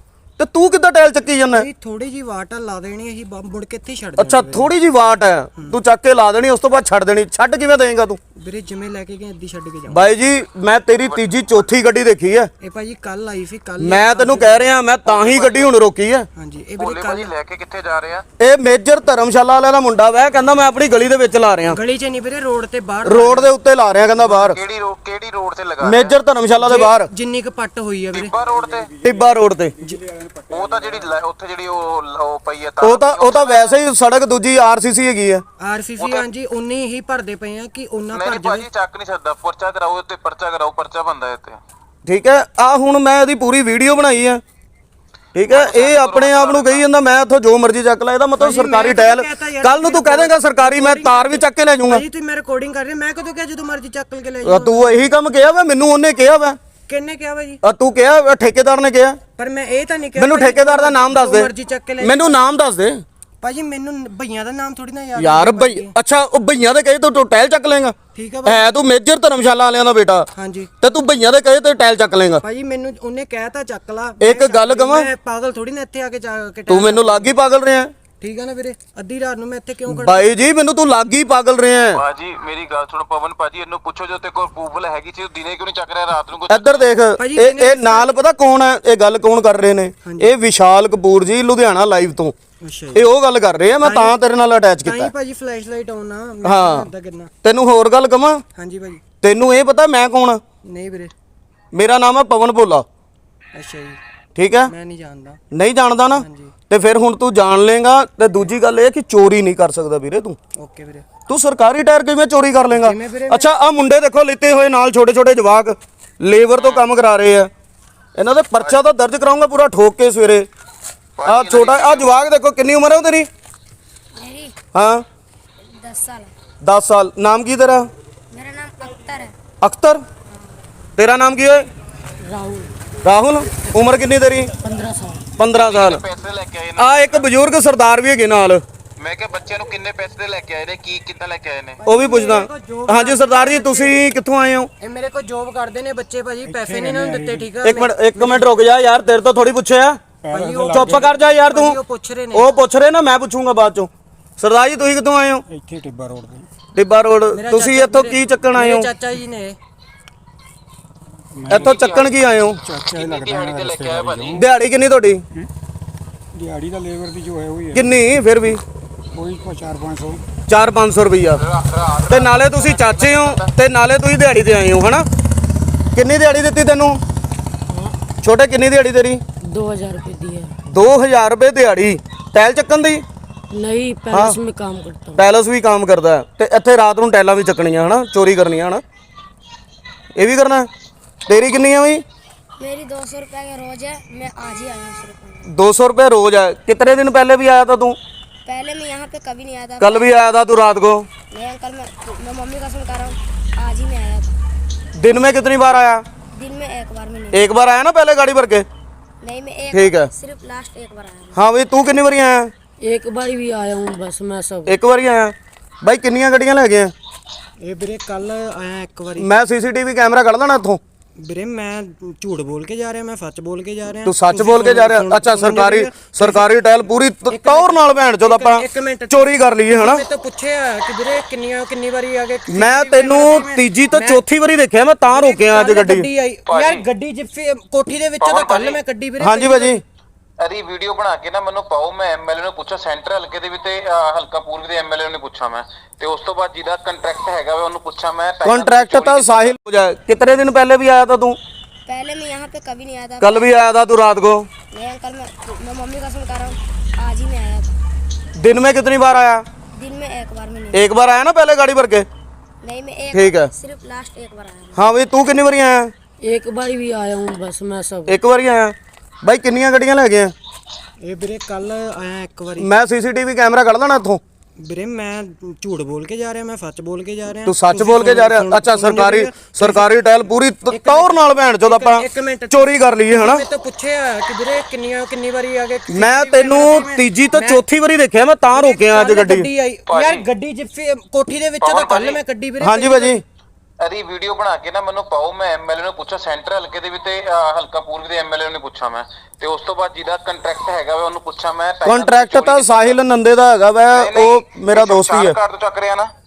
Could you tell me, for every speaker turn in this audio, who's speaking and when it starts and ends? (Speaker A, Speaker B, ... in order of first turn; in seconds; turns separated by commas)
Speaker A: 0.4-1.7, Speaker B: 1.5-4.7, Speaker A: 4.2-8.2, Speaker B: 8.3-10.1, Speaker A: 9.9-12.5, Speaker C: 11.0-11.7, Speaker B: 12.6-14.7, Speaker A: 13.8-16.3, Speaker C: 15.0-15.8, Speaker B: 16.4-17.3, Speaker C: 16.8-18.2, Speaker A: 18.4-21.8, Speaker B: 21.7-23.5, Speaker A: 23.0-24.6, Speaker B: 24.2-24.4, Speaker C: 24.4-26.1, Speaker A: 25.8-27.1, Speaker B: 26.6-28.3, Speaker C: 28.1-28.9, Speaker A: 29.0-29.7, Speaker D: 29.8-31.0, Speaker C: 30.5-33.8, Speaker A: 32.8-35.4, Speaker B: 35.6-38.7, Speaker C: 36.0-36.3, Speaker C: 38.1-41.6, Speaker A: 42.0-44.4, Speaker A: 45.3-52.0, Speaker C: 45.4-46.9, Speaker B: 48.4-55.1, Speaker A: 54.4-56.6, Speaker B: 56.9-57.6, Speaker A: 57.6-59.2, Speaker B: 59.4-62.4, Speaker A: 60.2-61.5, Speaker A: 62.0-63.0, Speaker B: 63.4-65.9, Speaker A: 65.2-70.3, Speaker B: 68.1-68.8, Speaker B: 70.3-70.7, Speaker A: 70.8-72.4, Speaker B: 72.4-77.3, Speaker A: 74.2-75.1, Speaker A: 76.7-77.9, Speaker B: 78.2-80.5, Speaker A: 79.9-82.0, Speaker C: 81.8-86.9, Speaker A: 86.5-92.3, Speaker B: 87.2-88.2, Speaker B: 90.0-90.3, Speaker B: 92.6-93.0, Speaker A: 92.9-95.1, Speaker B: 93.8-94.1, Speaker B: 94.8-97.3, Speaker A: 96.4-96.9, Speaker A: 97.4-98.4, Speaker B: 98.5-99.0, Speaker A: 99.2-100.4, Speaker B: 100.6-101.1, Speaker A: 101.7-102.8, Speaker B: 103.5-104.0, Speaker A: 104.3-104.7, Speaker B: 104.7-105.4, Speaker A: 105.5-110.4, Speaker B: 106.2-106.5, Speaker B: 110.6-111.1, Speaker A: 111.3-117.5, Speaker B: 112.7-113.5, Speaker C: 116.5-116.8, Speaker A: 118.2-120.5, Speaker C: 121.2-122.1, Speaker A: 121.2-123.3, Speaker E: 124.2-124.5, Speaker A: 124.7-125.0, Speaker E: 125.7-126.3, Speaker A: 126.6-127.9, Speaker E: 128.3-129.3, Speaker A: 129.6-130.0, Speaker A: 131.0-131.7, Speaker F: 132.2-132.7, Speaker A: 133.0-134.5, Speaker F: 134.6-135.2, Speaker A: 135.4-136.0, Speaker C: 135.5-137.3, Speaker A: 136.8-138.6, Speaker C: 139.0-141.8, Speaker B: 141.8-144.0, Speaker A: 141.8-144.7, Speaker B: 144.8-148.5, Speaker D: 146.4-147.5, Speaker A: 147.6-150.0, Speaker D: 150.2-151.1, Speaker B: 150.3-152.5, Speaker A: 150.7-151.8, Speaker A: 152.3-155.4, Speaker D: 155.5-156.5, Speaker A: 156.7-158.9, Speaker B: 157.3-159.6, Speaker D: 161.3-161.7, Speaker A: 161.5-162.6, Speaker C: 161.5-162.1, Speaker C: 162.7-164.4, Speaker D: 162.7-164.4, Speaker A: 164.3-165.2, Speaker D: 166.3-168.0, Speaker A: 167.7-168.6, Speaker D: 169.1-170.2, Speaker A: 170.5-171.4, Speaker C: 171.4-173.5, Speaker A: 172.1-175.0, Speaker A: 175.9-177.0, Speaker F: 177.7-178.0, Speaker A: 178.2-179.2, Speaker F: 179.4-180.5, Speaker A: 180.7-183.0, Speaker F: 183.5-185.2, Speaker A: 184.1-184.4, Speaker A: 185.1-188.8, Speaker A: 190.1-190.7, Speaker A: 191.3-192.0, Speaker E: 192.6-195.5, Speaker A: 195.5-198.0, Speaker E: 198.4-200.2, Speaker A: 199.8-201.1, Speaker E: 201.3-204.4, Speaker A: 205.0-206.0, Speaker E: 206.3-207.5, Speaker A: 207.3-208.7, Speaker E: 209.2-211.4, Speaker A: 209.7-210.1, Speaker A: 211.3-212.5, Speaker F: 212.8-214.8, Speaker A: 214.7-216.9, Speaker B: 217.6-219.3, Speaker A: 219.2-220.8, Speaker B: 221.2-226.5, Speaker A: 224.0-230.0, Speaker B: 227.3-234.2, Speaker A: 232.5-236.1, Speaker B: 235.0-239.8, Speaker C: 236.5-236.8, Speaker C: 238.2-238.8, Speaker A: 239.2-239.8, Speaker C: 240.4-249.6, Speaker A: 248.4-251.4, Speaker E: 251.8-253.6, Speaker A: 253.2-254.5, Speaker E: 254.7-257.8, Speaker A: 258.4-259.4, Speaker E: 259.7-260.9, Speaker A: 260.7-262.1, Speaker E: 262.6-264.8, Speaker A: 263.1-263.5, Speaker A: 264.7-265.9, Speaker F: 266.2-268.2, Speaker A: 268.1-270.3, Speaker B: 271.0-272.7, Speaker A: 272.6-274.2, Speaker B: 274.6-279.9, Speaker A: 277.4-283.4, Speaker B: 280.7-287.6, Speaker A: 285.9-289.5, Speaker B: 288.4-293.2, Speaker C: 289.9-290.2, Speaker C: 291.6-292.2, Speaker A: 292.6-293.2, Speaker C: 293.8-303.0, Speaker A: 301.8-305.3, Speaker C: 303.9-306.1